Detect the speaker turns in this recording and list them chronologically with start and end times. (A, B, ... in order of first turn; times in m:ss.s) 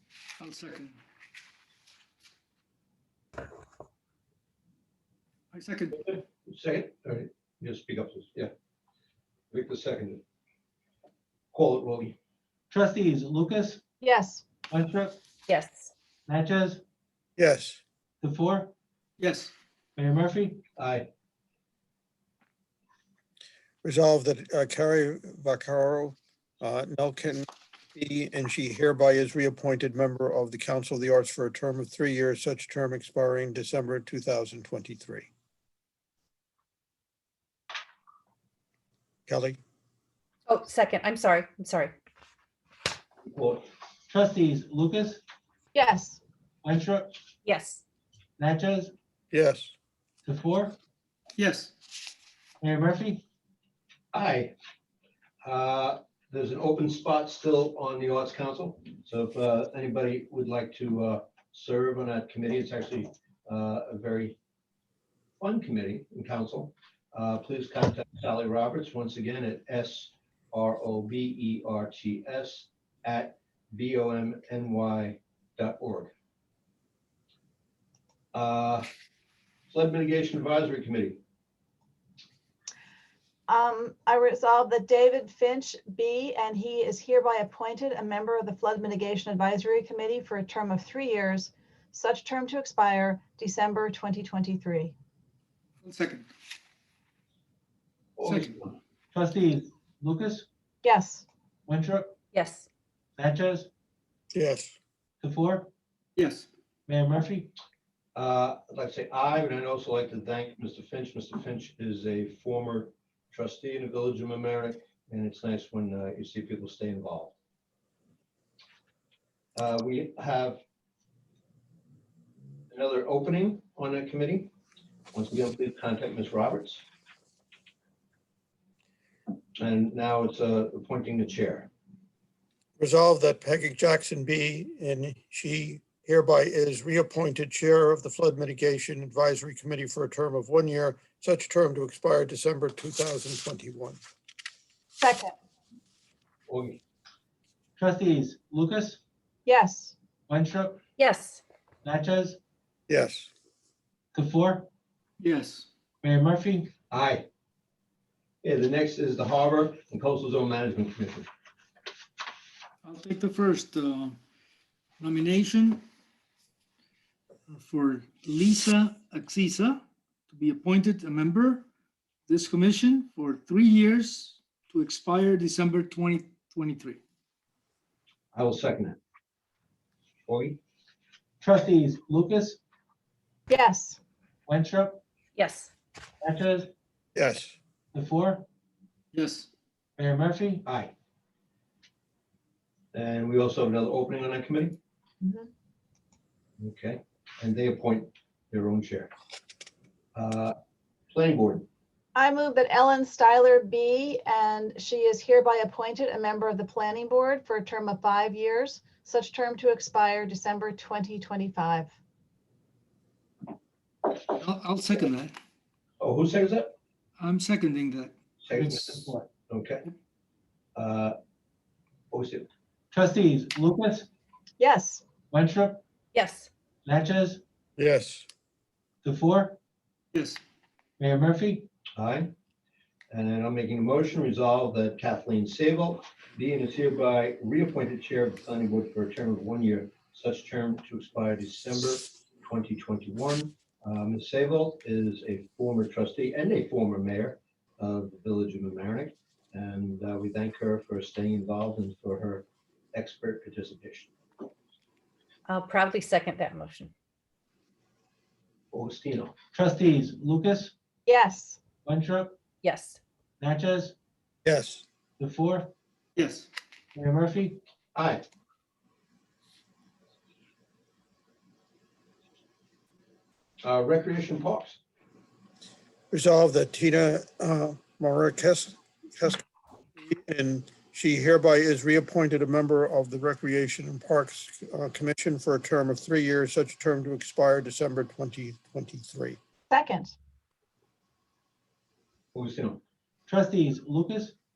0:00.4-0:01.0 A
0:05.5-0:06.2 A
0:06.1-0:08.5 B
0:09.5-0:10.2 B
0:11.5-0:12.2 B
0:12.7-0:13.8 C
0:14.0-0:14.4 D
0:14.7-0:15.2 C
0:16.3-0:16.8 C
0:17.4-0:17.8 E
0:18.2-0:18.7 C
0:19.2-0:19.5 A
0:20.0-0:20.6 C
0:20.8-0:21.1 B
0:23.8-0:35.3 E
0:39.3-0:39.6 E
0:40.5-0:41.9 F
0:43.3-0:43.6 B
0:44.1-0:45.2 C
0:45.7-0:46.2 D
0:46.6-0:47.2 C
0:47.4-0:47.8 F
0:48.4-0:48.9 C
0:49.3-0:49.7 E
0:50.2-0:50.8 C
0:51.4-0:51.7 A
0:52.6-0:53.2 C
0:54.1-0:54.5 B
0:55.4-1:04.4 B
1:05.4-1:16.1 B
1:18.3-1:18.9 B
1:19.7-1:21.2 B
1:23.5-1:34.9 D
1:35.8-1:36.3 A
1:38.2-1:38.8 B
1:38.2-1:38.6 A
1:39.1-1:40.5 C
1:40.8-1:41.3 D
1:41.7-1:42.2 C
1:42.3-1:42.6 F
1:43.2-1:43.7 C
1:44.3-1:44.8 E
1:45.2-1:45.7 C
1:46.2-1:46.5 A
1:46.9-1:47.5 C
1:48.2-1:57.3 B
1:59.6-2:00.6 B
2:02.7-2:04.5 B
2:05.1-2:06.8 B
2:09.6-2:11.7 B
2:12.8-2:24.0 E
2:25.0-2:25.4 D
2:26.5-2:26.8 B
2:27.8-2:29.0 C
2:29.4-2:30.0 D
2:30.3-2:30.8 C
2:31.0-2:31.4 F
2:31.8-2:32.4 C
2:32.9-2:33.3 E
2:34.1-2:34.7 C
2:35.2-2:35.7 A
2:36.0-2:36.7 C
2:36.9-2:37.3 B
2:38.4-2:41.3 B
2:42.8-2:44.2 A
2:45.0-2:45.8 A
2:47.5-2:51.7 A
2:52.3-2:57.0 A
2:58.3-2:59.0 B
3:00.3-3:00.6 B
3:01.4-3:02.6 C
3:03.5-3:04.0 D
3:04.5-3:05.0 C
3:05.4-3:05.7 F
3:06.2-3:06.7 C
3:07.2-3:07.6 E
3:07.9-3:08.4 C
3:09.1-3:09.5 A
3:10.0-3:10.6 C
3:10.6-3:10.9 B
3:12.9-3:14.8 B
3:15.2-3:15.5 D
3:16.6-3:19.1 B
3:20.2-3:20.5 B
3:21.1-3:21.7 B
3:22.2-3:31.9 D
3:34.2-3:35.4 A
3:36.0-3:36.7 B
3:37.2-3:38.2 A
3:38.4-3:39.9 B
3:38.5-3:39.3 C
3:40.8-3:41.2 B
3:42.1-3:42.5 B
3:42.9-3:44.1 C
3:44.6-3:45.0 D
3:45.3-3:45.8 C
3:46.1-3:46.5 F
3:46.9-3:47.4 C
3:47.8-3:48.3 E
3:49.0-3:49.6 C
3:50.1-3:50.4 A
3:51.0-3:51.7 C
3:52.0-3:52.3 B
3:53.1-4:14.1 B
4:15.5-4:16.9 F
4:18.7-4:19.3 B
4:19.5-4:20.7 C
4:21.1-4:21.6 D
4:21.8-4:22.4 C
4:22.6-4:23.0 F
4:23.4-4:24.0 C
4:24.4-4:24.8 E
4:25.2-4:25.7 C
4:26.2-4:26.5 A
4:27.0-4:27.6 C
4:28.0-4:28.2 B
4:33.6-4:34.8 B
4:36.1-4:39.4 E
4:40.0-4:49.4 E
4:49.7-4:50.2 D
4:52.3-4:52.8 B
4:53.3-4:54.4 C